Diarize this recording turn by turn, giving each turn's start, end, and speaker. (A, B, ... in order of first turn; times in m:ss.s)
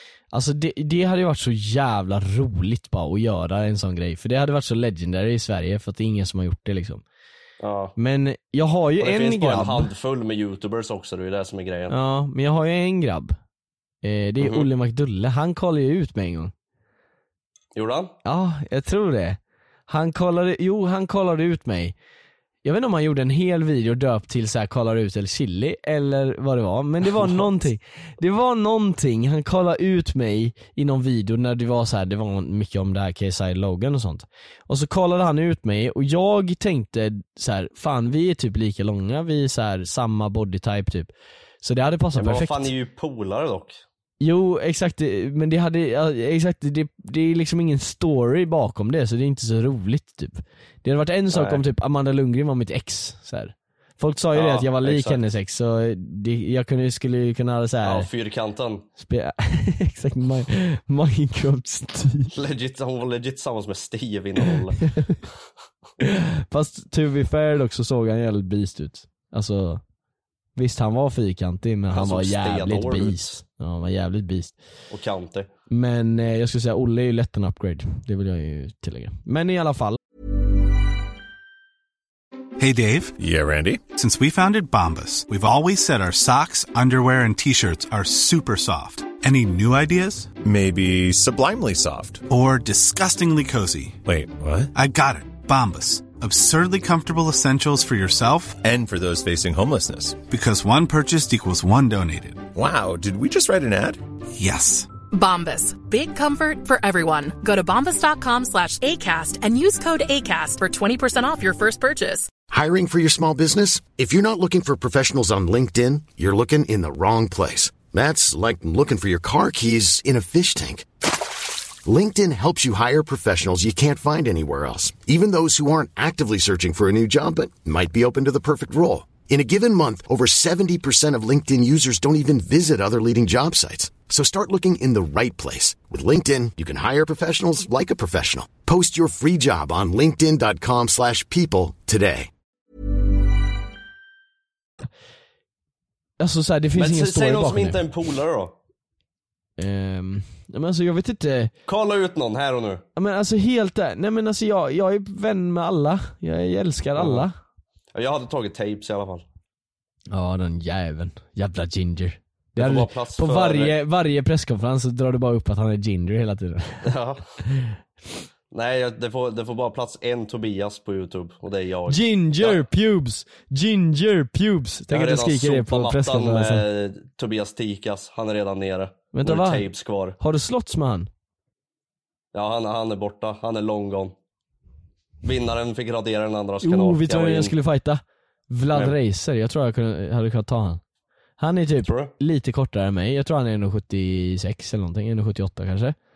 0:00.3-0:07.0 A
0:07.6-0:08.0 B
0:08.0-0:09.9 A
0:09.0-0:12.0 B
0:11.9-0:13.4 A
0:14.0-0:16.5 A
0:14.4-0:14.7 B
0:17.7-0:18.1 B
0:18.2-0:21.9 A
0:22.6-0:41.1 A
0:27.1-0:27.5 B
0:41.6-0:42.7 A
0:42.1-0:43.8 B
0:44.2-0:58.1 A
0:51.3-0:51.6 B
0:54.3-0:55.2 B
0:57.8-0:58.9 B
0:59.0-1:02.3 A
1:02.3-1:04.8 B
1:04.9-1:05.2 A
1:06.0-1:09.8 A
1:10.6-1:14.6 A
1:11.9-1:13.4 B
1:14.9-1:15.5 B
1:15.7-1:20.0 A
1:22.6-1:23.2 C
1:23.2-1:23.8 D
1:24.0-1:30.3 C
1:30.4-1:32.2 D
1:32.3-1:34.0 C
1:34.1-1:34.7 D
1:34.8-1:38.6 C
1:38.6-1:40.2 D
1:40.3-1:42.5 C
1:42.6-1:44.0 D
1:44.4-1:44.9 C
1:45.1-1:52.3 E
1:52.5-2:00.9 F
2:01.8-2:22.3 F
2:26.2-2:27.8 A
2:26.8-2:28.6 B
2:29.6-2:31.5 A
2:31.7-2:32.8 B
2:33.0-2:37.4 A
2:37.0-2:37.3 B
2:37.9-2:39.3 B
2:40.1-2:46.9 A
2:42.6-2:43.8 B
2:46.8-2:47.2 B
2:47.4-2:47.7 A
2:48.5-2:52.6 B
2:51.9-2:56.6 A
2:54.9-3:00.2 B
2:59.1-2:59.7 A
3:00.2-3:01.1 A
3:02.3-3:04.1 B
3:05.2-3:07.5 B
3:06.6-3:10.8 A
3:11.4-3:16.0 A
3:11.8-3:12.1 B